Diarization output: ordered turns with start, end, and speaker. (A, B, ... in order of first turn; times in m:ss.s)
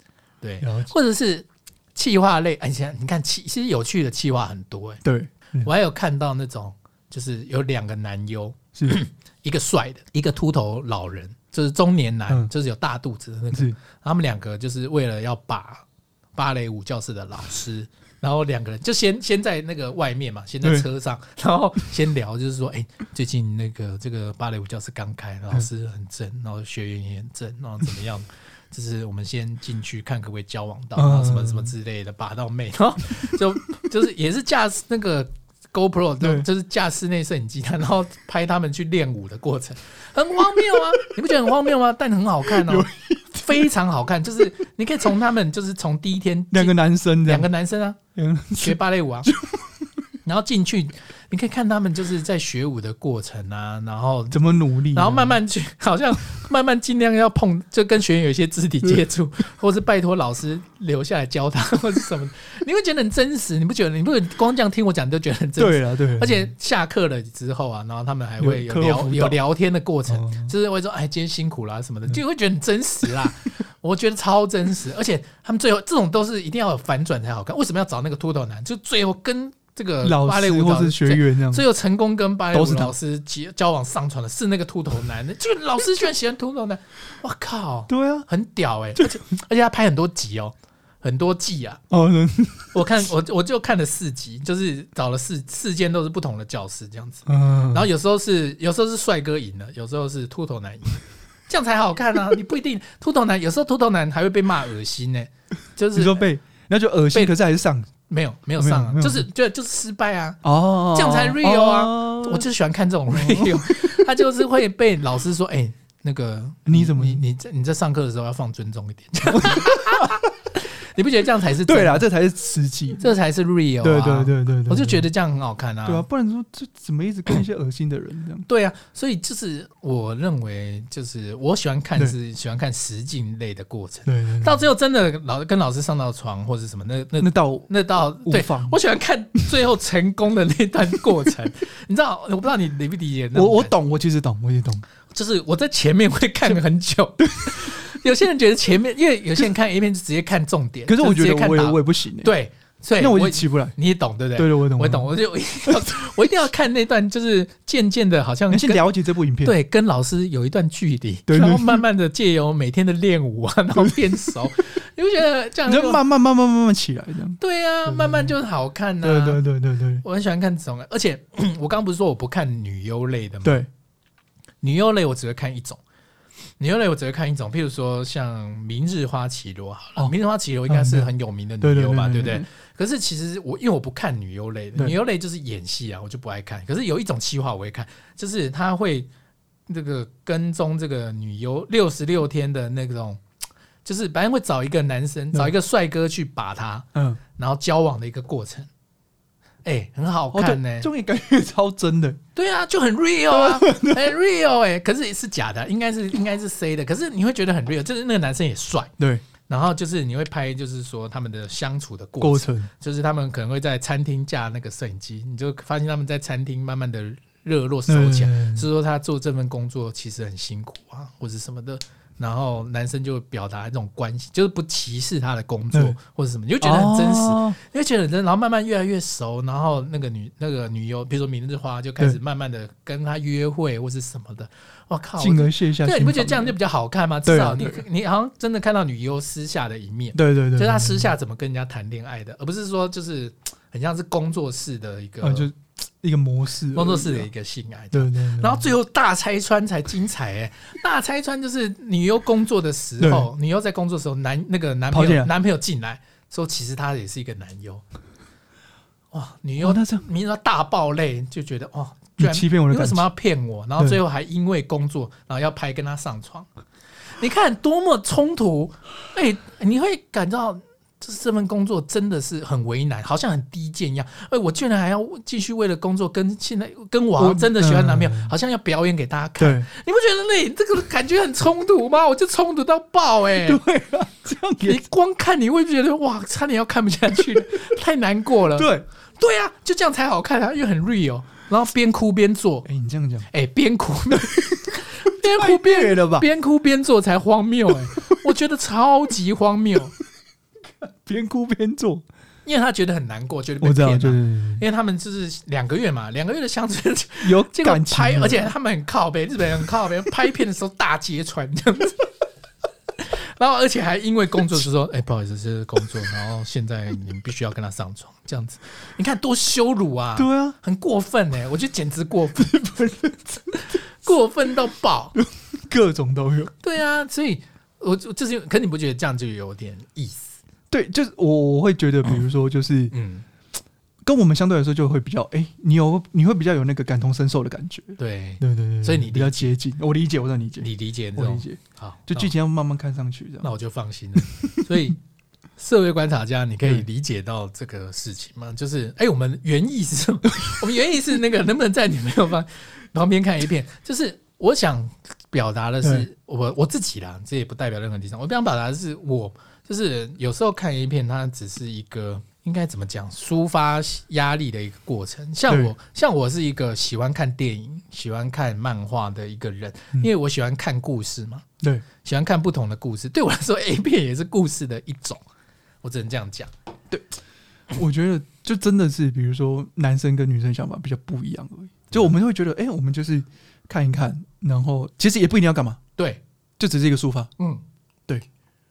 0:00.4-0:05.0 A
0:00.6-0:00.9 B
0:05.0-0:05.7 B
0:05.6-0:48.0 A
0:31.0-0:31.7 B
0:40.5-0:41.5 B
0:42.4-0:43.7 B
0:46.5-0:47.5 B
0:48.1-0:50.1 B
0:48.6-0:49.3 A
0:50.2-1:31.8 A
0:54.3-0:55.4 B
1:05.6-1:06.5 B
1:08.4-1:09.4 B
1:10.1-1:10.5 B
1:20.0-1:21.6 B
1:22.5-1:22.9 B
1:27.9-1:28.3 B
1:31.9-1:33.0 B
1:32.7-1:46.2 A
1:37.2-1:37.9 B
1:45.9-1:47.9 B
1:48.1-2:02.0 A
1:48.6-1:49.2 B
1:50.4-1:52.4 B
1:53.1-1:54.0 B
1:56.7-1:57.2 B
1:59.3-2:00.2 B
2:01.6-2:03.1 B
2:03.0-2:06.0 A
2:03.8-2:05.0 B
2:05.8-2:08.4 B
2:08.5-2:23.7 A
2:14.0-2:14.6 B
2:17.2-2:17.7 B
2:18.2-2:18.8 B
2:23.3-2:24.8 B
2:25.1-2:38.8 A
2:27.2-2:27.7 B
2:30.9-2:32.3 B
2:33.0-2:33.7 B
2:34.4-2:35.1 B
2:35.6-2:35.9 B
2:38.5-2:39.5 B
2:39.4-2:46.0 A
2:41.3-2:41.8 B
2:45.7-2:48.3 B
2:47.4-2:49.4 A
2:49.0-2:50.0 B
2:50.0-2:53.6 A
2:53.4-2:53.7 B
2:54.6-2:55.8 A
2:56.6-3:09.1 A
3:00.7-3:01.1 B
3:01.6-3:02.4 B
3:09.7-3:13.2 A
3:13.8-3:18.7 A
3:16.9-3:17.2 B
3:19.6-3:20.9 A
3:20.3-3:22.2 B
3:22.4-3:28.9 A
3:23.3-3:24.1 B
3:29.0-3:29.2 B
3:29.5-4:05.5 A
3:32.2-3:32.7 B
3:37.9-3:38.7 B
3:45.7-3:46.0 B
3:46.6-3:47.6 B
3:55.2-3:56.6 B
3:57.2-3:57.8 B
4:00.1-4:01.1 B
4:05.2-4:07.3 B
4:06.7-4:17.8 A
4:07.9-4:08.7 B
4:13.0-4:13.3 B
4:14.9-4:15.3 B
4:19.1-4:26.5 A
4:19.6-4:20.0 B
4:22.2-4:23.1 B
4:27.2-4:43.6 A
4:37.2-4:38.3 B
4:39.4-4:39.7 B
4:43.4-4:44.8 B
4:44.6-4:52.7 A
4:48.6-4:48.8 B
4:52.6-4:53.3 B
4:53.3-4:59.9 A
4:54.3-4:56.3 B
4:57.7-4:58.1 B
5:01.0-5:02.0 B
5:02.4-5:12.1 A
5:03.6-5:04.6 B
5:07.2-5:08.5 B
5:13.0-5:22.7 A
5:20.2-5:20.6 B
5:22.4-5:23.6 B
5:23.6-5:25.2 A
5:25.2-5:26.5 B
5:26.6-5:30.4 A
5:30.7-5:32.9 B
5:32.9-5:33.2 A
5:34.0-5:43.5 B
5:38.0-5:39.5 A
5:40.6-5:42.3 A
5:43.4-5:45.0 A
5:44.2-5:44.8 B
5:45.6-6:11.4 A
5:55.8-5:56.1 B
6:12.0-6:15.2 A
6:15.8-6:16.5 A
6:17.7-6:25.8 B
6:26.6-6:27.3 B